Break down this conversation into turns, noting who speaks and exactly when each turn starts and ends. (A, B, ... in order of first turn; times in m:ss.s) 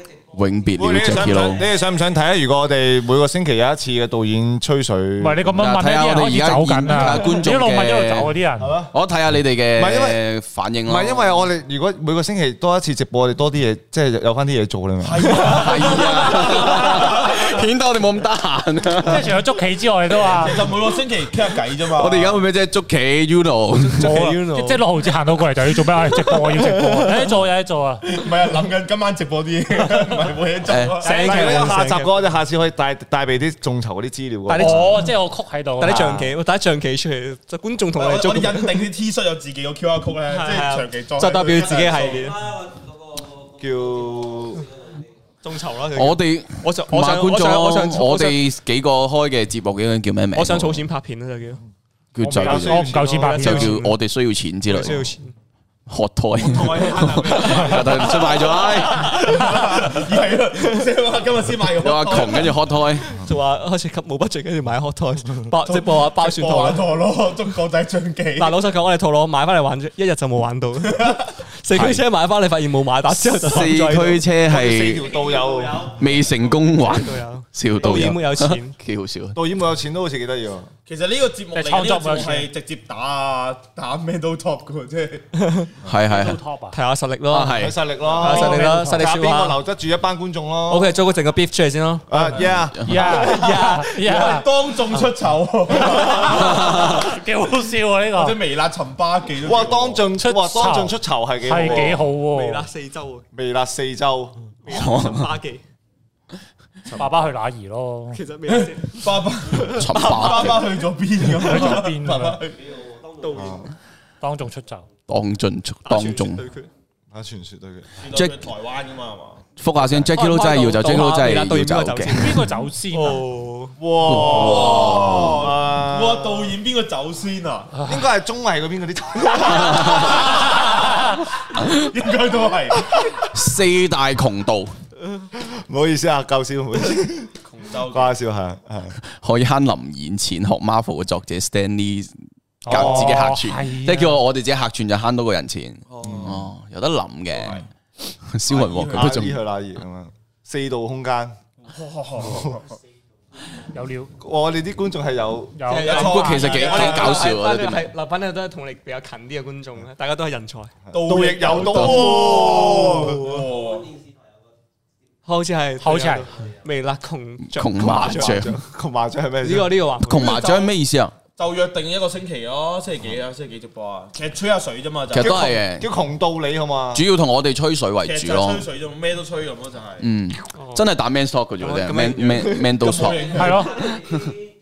0:00.3-0:01.6 A
0:00.8-0:05.6 B
0:05.2-0:08.8 C
0:05.6-0:11.4 A
0:08.6-0:08.9 B
0:09.7-0:10.2 B
0:10.8-0:15.7 B
0:15.0-0:17.5 D
0:15.4-0:19.4 A
0:19.0-0:20.7 C
0:20.2-0:22.4 D
0:21.9-0:24.2 A
0:23.8-0:24.9 E
0:24.0-0:28.1 C
0:26.1-0:27.2 E
0:28.0-0:31.1 D
0:30.7-0:31.0 A
0:31.0-0:32.1 E
0:31.0-0:35.1 B
0:31.1-0:31.6 C
0:34.5-0:36.1 C
0:34.5-0:34.8 E
0:35.8-0:38.8 E
0:35.8-0:36.3 B
0:37.9-0:42.3 D
0:40.3-0:42.4 E
0:43.5-0:44.6 B
0:45.4-0:48.4 E
0:45.9-0:50.8 A
0:50.3-0:51.6 E
0:52.1-0:55.1 A
0:52.2-0:53.4 B
0:52.3-0:53.8 C
0:52.9-0:54.0 E
0:54.7-0:55.3 E
0:55.9-0:59.2 A
0:56.4-1:02.6 D
0:57.3-1:00.0 E
1:01.8-1:03.2 A
1:03.0-1:06.8 E
1:05.6-1:08.6 D
1:08.4-1:14.2 E
1:10.9-1:11.2 D
1:11.7-1:12.0 A
1:13.1-1:15.1 A
1:14.4-1:16.1 B
1:15.9-1:19.4 A
1:16.8-1:18.8 E
1:19.3-1:20.7 B
1:20.9-1:25.3 D
1:21.5-1:22.5 C
1:25.3-1:25.7 E
1:25.8-1:26.4 A
1:26.0-1:26.8 C
1:26.7-1:29.6 E
1:27.3-1:27.8 A
1:27.5-1:30.9 B
1:28.0-1:28.6 D
1:28.3-1:29.1 C
1:30.7-1:32.1 E
1:32.1-1:33.1 B
1:32.8-1:33.1 A
1:32.8-1:34.5 C
1:33.0-1:34.3 E
1:33.4-1:37.0 D
1:35.9-1:38.4 C
1:38.1-1:40.1 D
1:39.4-1:42.1 B
1:40.2-1:42.6 C
1:41.6-1:43.2 E
1:43.3-1:44.4 B
1:44.6-1:45.6 E
1:44.7-1:45.3 A
1:46.9-1:48.2 C
1:48.1-1:50.5 E
1:48.5-1:52.6 D
1:49.7-1:50.6 A
1:51.4-1:52.4 C
1:53.2-1:53.7 E
1:53.3-1:53.7 B
1:54.2-1:54.9 C
1:55.1-1:56.4 A
1:55.8-1:56.7 E
1:57.1-1:58.0 B
1:58.0-1:59.4 D
1:58.1-1:58.4 A
1:59.6-2:02.4 A
2:00.0-2:03.8 E
2:02.1-2:03.2 C
2:03.8-2:06.6 B
2:04.1-2:05.4 A
2:04.1-2:07.7 D
2:07.8-2:10.3 B
2:09.4-2:10.2 A
2:09.7-2:11.0 D
2:11.6-2:12.9 D
2:13.2-2:14.7 A
2:15.3-2:17.3 B
2:17.4-2:18.2 D
2:17.9-2:19.0 B
2:19.0-2:22.1 A
2:22.6-2:24.2 C
2:22.7-2:27.6 A
2:22.7-2:23.2 B
2:25.9-2:26.4 D
2:26.0-2:26.4 B
2:27.3-2:27.6 D
2:28.2-2:29.4 A
2:28.4-2:29.3 D
2:28.9-2:31.4 B
2:31.7-2:32.8 D
2:32.2-2:32.6 B
2:33.7-2:34.1 C
2:34.2-2:35.6 B
2:35.6-2:36.5 C
2:35.6-2:40.7 E
2:35.7-2:37.3 D
2:35.9-2:37.9 A
2:40.9-2:43.4 B
2:40.9-2:43.9 D
2:41.6-2:42.1 A
2:41.9-2:43.1 E
2:45.2-2:48.6 E
2:45.8-2:46.3 C
2:47.5-2:48.5 A
2:47.7-2:49.8 B
2:49.4-2:50.4 E
2:50.0-2:51.1 A
2:50.1-2:50.8 D
2:51.4-2:55.5 D
2:55.1-2:55.9 A
2:55.2-2:57.0 B
2:56.9-2:58.6 A
2:58.0-3:00.1 D
3:00.0-3:04.2 A
3:00.5-3:00.9 E
3:01.6-3:02.8 E
3:02.6-3:03.9 D
3:03.3-3:03.9 C